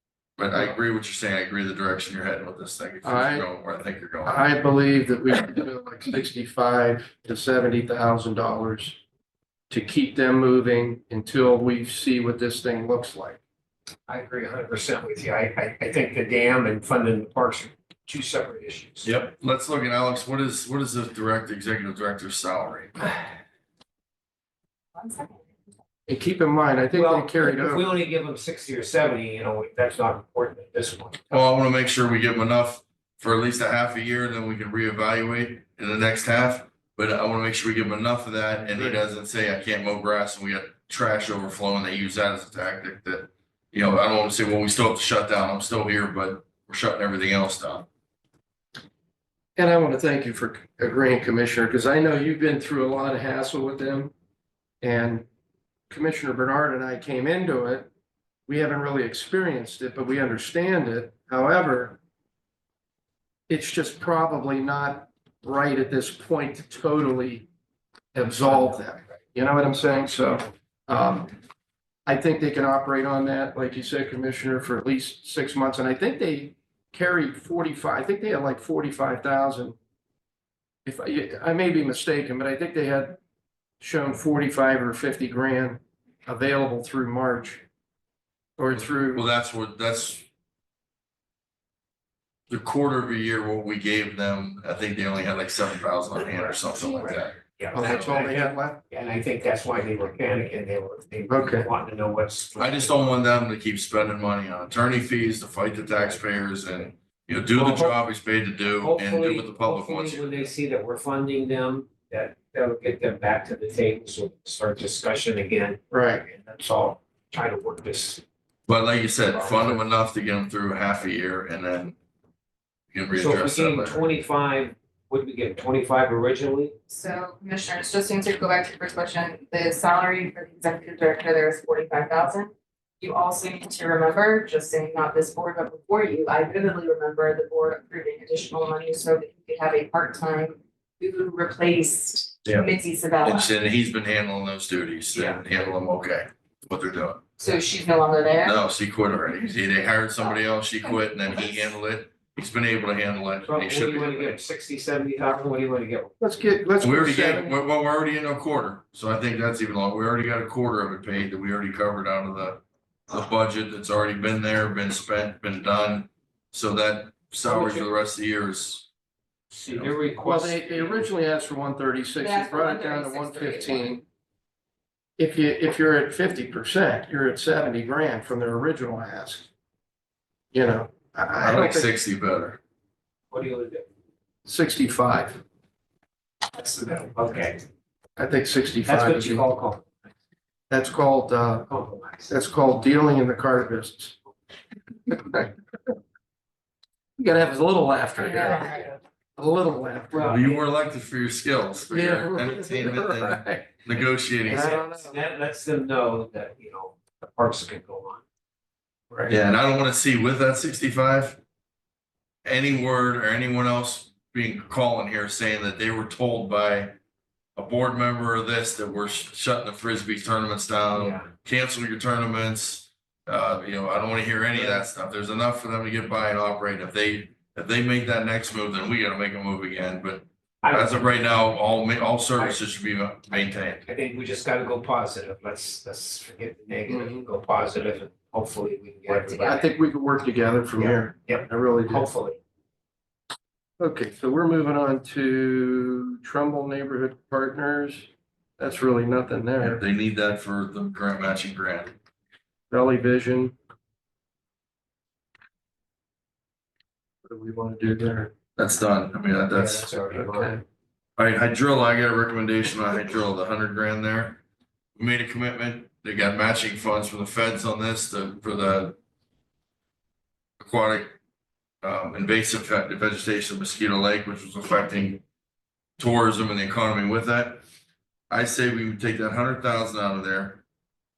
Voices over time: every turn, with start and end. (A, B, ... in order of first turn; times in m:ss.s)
0:00.4-0:04.4 A
0:03.0-0:03.5 B
0:04.2-0:09.0 B
0:09.7-0:13.4 B
0:14.1-0:19.1 C
0:19.0-0:23.1 A
0:24.9-0:25.4 D
0:26.1-0:28.0 B
0:26.9-0:31.4 C
0:31.3-0:47.9 A
0:38.7-0:39.0 B
0:49.6-0:54.1 B
0:54.8-0:55.2 B
0:55.9-0:57.9 B
0:58.5-1:02.0 B
1:03.5-1:07.5 B
1:08.1-1:11.3 B
1:08.4-1:08.8 C
1:12.0-1:19.8 B
1:20.8-1:23.2 B
1:23.8-1:27.6 B
1:28.6-1:29.2 B
1:28.7-1:30.2 A
1:32.5-1:38.3 A
1:36.2-1:43.3 C
1:37.7-1:38.8 B
1:41.3-1:41.7 B
1:42.6-1:50.5 A
1:47.5-1:48.0 C
1:48.7-1:58.2 C
1:55.9-1:56.2 B
1:58.7-2:02.0 A
1:59.2-1:59.8 C
2:02.9-2:04.1 A
2:03.1-2:06.8 C
2:06.9-2:23.5 D
2:23.2-2:27.2 A
2:25.1-2:25.4 C
2:27.4-2:28.6 D
2:28.4-2:34.3 A
2:30.8-2:31.7 D
2:33.4-2:36.1 C
2:36.2-2:37.5 B
2:36.8-2:48.9 A
2:47.4-2:47.9 C
2:49.5-2:51.1 C
2:49.7-2:49.9 A
2:50.2-2:54.0 B
2:52.2-2:54.0 D
2:55.2-2:59.5 B
3:00.5-3:01.9 B
3:01.4-3:02.6 A
3:03.3-3:03.8 C
3:04.4-3:05.4 B
3:06.5-3:07.6 C
3:08.2-3:09.5 B
3:08.8-3:09.8 C
3:10.7-3:11.7 B
3:11.7-3:12.3 C
3:12.3-3:14.2 B
3:15.1-3:15.5 B
3:17.2-3:20.4 B
3:18.2-3:18.9 D
3:20.1-3:20.7 C
3:20.2-3:24.8 A
3:21.9-3:23.7 B
3:24.4-3:28.2 C
3:24.5-3:25.2 B
3:29.1-3:29.4 B
3:29.3-3:31.4 A
3:32.4-3:36.9 A
3:37.6-3:53.8 A
3:40.9-3:41.3 C
3:44.5-3:44.8 C
3:50.6-3:51.2 C
3:53.8-3:59.6 C
3:56.9-3:57.2 B
3:59.1-3:59.6 D
3:59.4-4:02.1 B
4:00.8-4:02.4 C
4:03.8-4:09.8 B
4:09.6-4:11.9 A
4:12.7-4:13.5 B
4:17.2-4:18.3 B
4:18.6-4:19.9 A
4:19.5-4:20.5 C
4:20.1-4:20.6 B
4:21.2-4:24.4 A
4:25.0-4:29.0 A
4:30.6-4:31.1 A
4:31.8-4:35.2 A
4:36.0-4:37.6 A
4:38.3-4:40.6 A